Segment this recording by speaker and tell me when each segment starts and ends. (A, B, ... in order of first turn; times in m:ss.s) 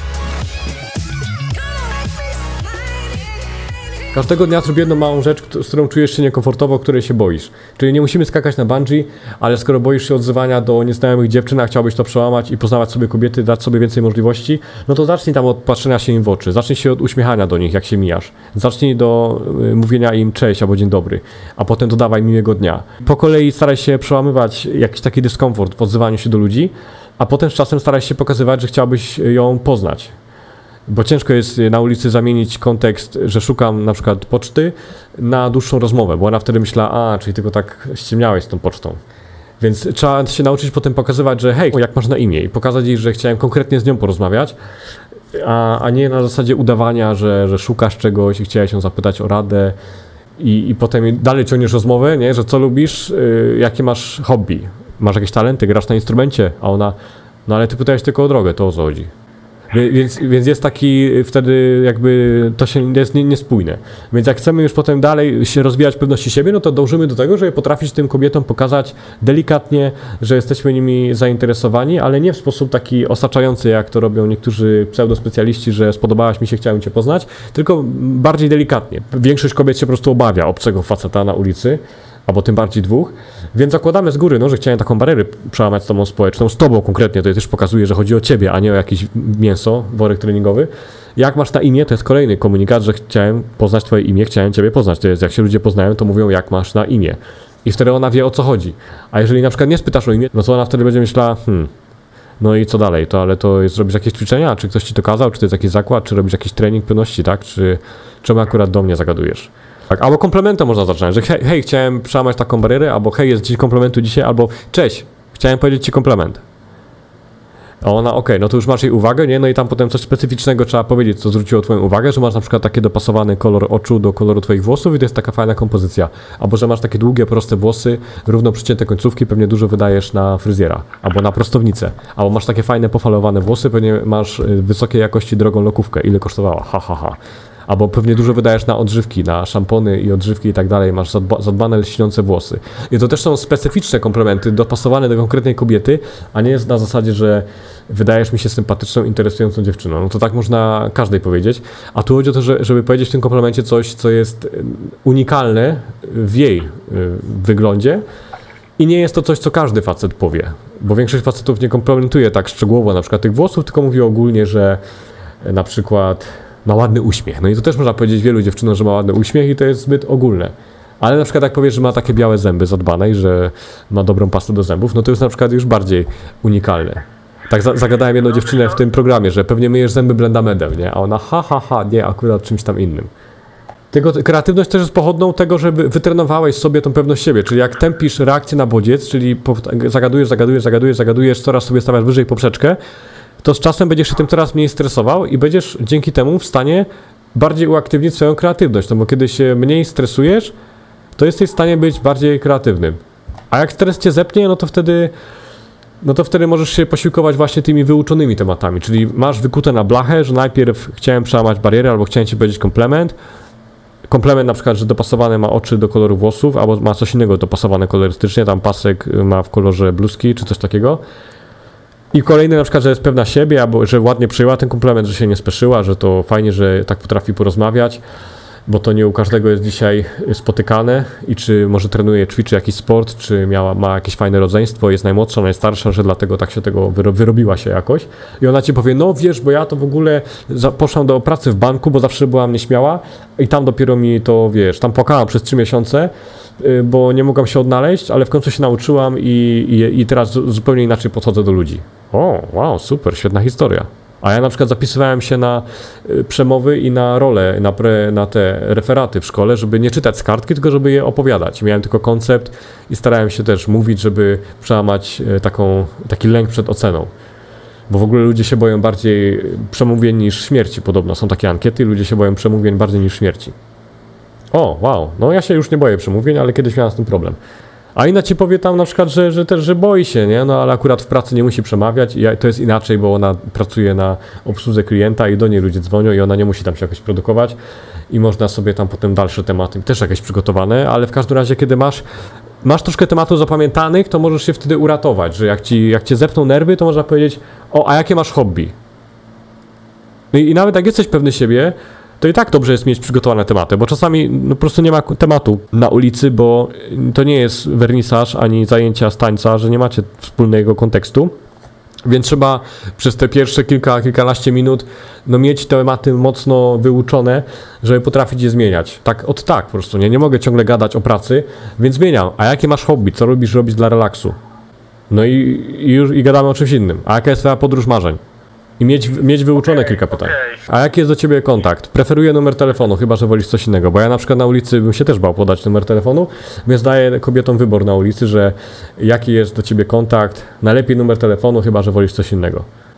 0:04.1-0:30.1 A
0:30.9-0:39.0 A
0:39.6-0:44.6 A
0:45.3-0:49.8 A
0:50.4-0:57.0 A
0:57.5-0:59.1 A
0:59.7-1:41.7 A
1:42.4-1:56.4 A
1:57.8-2:38.0 A
2:38.8-2:44.8 A
2:45.4-3:03.1 A
3:03.9-3:12.8 A
3:13.4-3:20.5 A
3:21.2-3:25.1 A
3:26.0-3:33.2 A
3:34.1-3:41.0 A
3:42.1-3:48.0 A
3:48.7-4:27.1 A
4:27.9-4:33.6 A
4:34.5-4:37.4 A
4:38.0-4:47.6 A
4:48.1-4:52.0 A
4:52.6-4:58.8 A
5:00.3-5:11.4 A
5:12.0-5:24.4 A
5:25.1-5:28.2 A
5:28.8-5:42.7 A